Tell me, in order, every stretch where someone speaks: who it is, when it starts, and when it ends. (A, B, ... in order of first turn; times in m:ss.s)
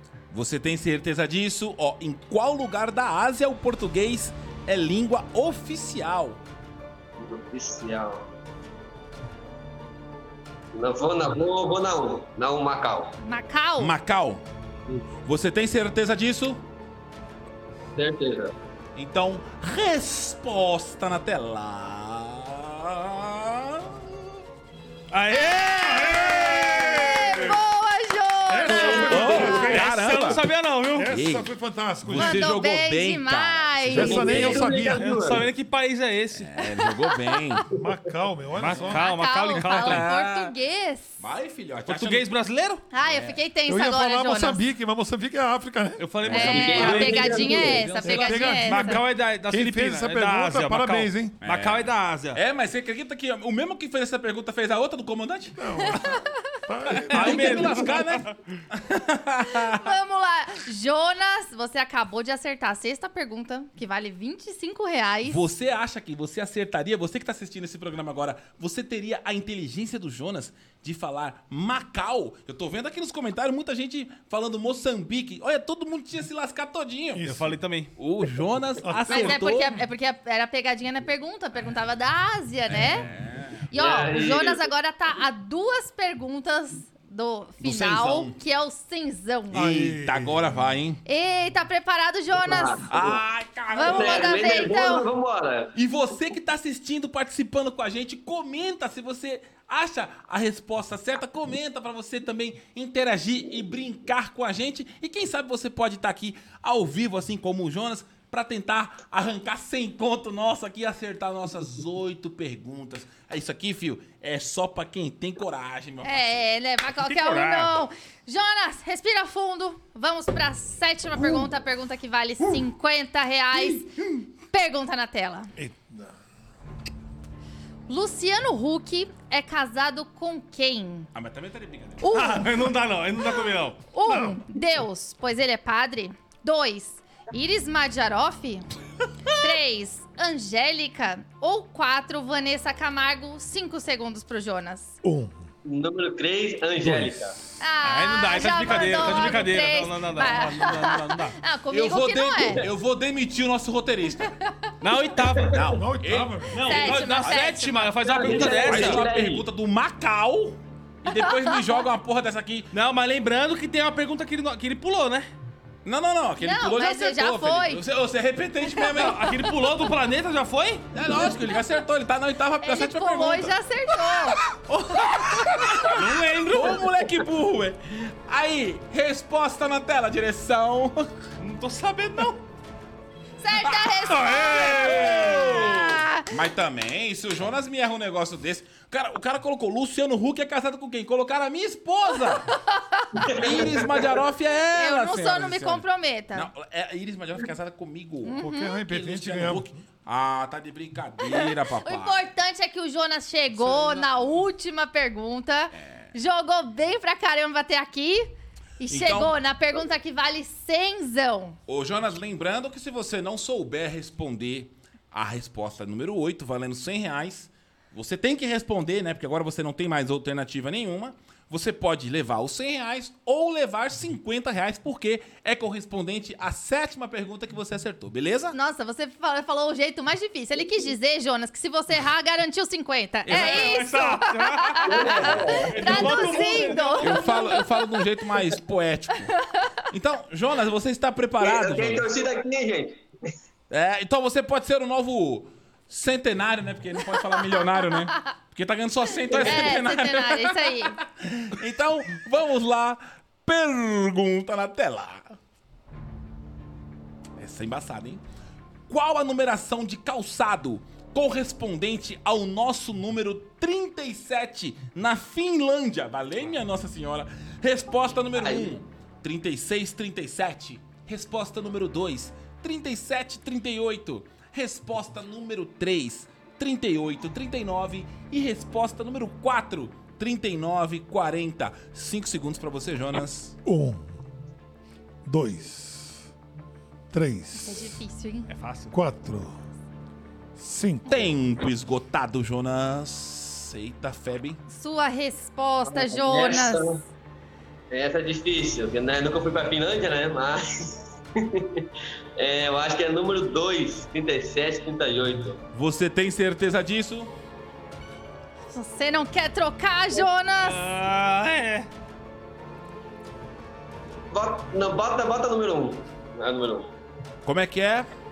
0:00.3-0:06.4 A
0:07.2-0:08.2 B
0:10.7-0:13.2 B
0:13.2-0:13.9 C
0:13.8-0:14.4 A
0:15.2-0:16.6 A
0:18.0-0:18.6 B
0:19.0-0:24.4 A
0:25.1-0:27.6 D
0:26.1-0:29.7 C
0:28.5-0:30.3 E
0:28.7-0:29.5 B
0:28.8-0:31.2 D
0:29.1-0:30.4 A
0:30.9-0:32.5 E
0:31.1-0:31.5 A
0:32.0-0:34.8 A
0:32.2-0:34.6 C
0:33.9-0:35.1 E
0:34.0-0:35.5 B
0:34.8-0:36.5 D
0:36.4-0:37.7 A
0:36.6-0:37.6 C
0:37.7-0:39.1 E
0:38.6-0:40.1 D
0:38.9-0:41.2 C
0:39.6-0:40.5 A
0:41.2-0:42.3 A
0:41.9-0:42.9 D
0:42.9-0:44.6 C
0:43.0-0:43.4 A
0:43.7-0:46.1 E
0:46.0-0:47.8 D
0:46.3-0:49.0 C
0:46.3-0:48.6 A
0:46.4-0:47.8 B
0:48.0-0:51.4 E
0:48.5-0:52.4 D
0:51.4-0:56.1 A
0:55.6-0:58.0 E
0:55.8-0:56.2 C
0:57.1-0:59.9 A
0:57.1-0:58.3 D
0:59.5-1:05.4 C
1:05.2-1:17.3 A
1:17.2-1:17.5 E
1:17.2-1:17.9 D
1:18.0-1:19.8 A
1:18.8-1:19.5 E
1:19.1-1:23.1 C
1:22.7-1:23.7 A
1:23.7-1:29.6 C
1:23.7-1:24.6 B
1:27.6-1:28.4 A
1:29.5-1:30.8 E
1:29.5-1:31.0 A
1:31.0-1:32.8 C
1:32.4-1:33.2 B
1:32.9-1:34.4 A
1:33.7-1:35.1 C
1:33.8-1:35.7 B
1:35.8-1:56.4 A
1:56.0-2:03.9 C
1:57.0-1:57.8 D
2:03.6-2:04.2 A
2:04.5-2:05.5 C
2:05.6-2:06.2 E
2:07.9-2:11.1 C
2:11.1-2:12.0 A
2:12.0-2:12.5 C
2:12.0-2:13.8 D
2:13.9-2:18.6 C
2:14.0-2:14.4 E
2:19.4-2:25.0 C
2:25.0-2:25.5 E
2:25.6-2:27.4 B
2:26.8-2:27.4 E
2:27.6-2:32.7 C
2:27.8-2:31.4 D
2:31.7-2:34.4 A
2:34.8-2:35.7 D
2:35.4-2:42.7 A
2:35.7-2:36.8 E
2:36.5-2:39.1 D
2:36.6-2:37.9 C
2:38.0-2:39.5 B
2:41.1-2:41.7 C
2:42.7-2:45.3 D
2:45.8-2:49.4 A
2:46.4-2:47.8 C
2:48.6-2:49.5 C
2:48.8-2:50.9 D
2:50.9-2:53.6 A
2:52.6-2:54.4 C
2:54.4-3:01.1 A
2:55.8-2:56.9 D
3:01.4-3:02.4 D
3:03.4-3:06.3 C
3:03.6-3:12.5 A
3:04.3-3:05.3 E
3:12.5-3:13.4 C
3:13.2-3:14.2 B
3:13.3-3:22.2 A
3:14.7-3:16.5 C
3:18.2-3:18.8 C
3:18.4-3:19.8 E
3:21.2-3:31.6 C
3:28.9-3:29.4 A
3:31.7-3:48.6 A
3:48.5-3:58.0 C
3:53.3-3:57.6 D
3:54.9-3:56.1 B
3:57.0-3:59.4 A
3:59.9-4:02.1 A
4:01.4-4:03.0 B
4:03.7-4:15.4 A
4:09.3-4:11.0 C
4:09.3-4:09.6 B
4:17.4-4:18.2 A
4:18.9-4:43.6 A
4:28.4-4:28.8 B
4:43.6-4:44.2 E
4:45.2-4:46.2 E
4:47.1-4:48.0 E
4:47.6-4:48.5 C
4:48.5-4:48.9 D
4:48.9-4:49.6 E
4:50.6-4:51.4 E
4:51.1-4:54.6 A
4:54.7-4:57.0 C
4:55.9-4:57.0 B
4:57.9-5:05.6 B
5:05.7-5:07.3 A
5:08.7-5:10.8 C
5:10.6-5:11.9 D
5:14.3-5:16.9 B
5:17.4-5:18.1 A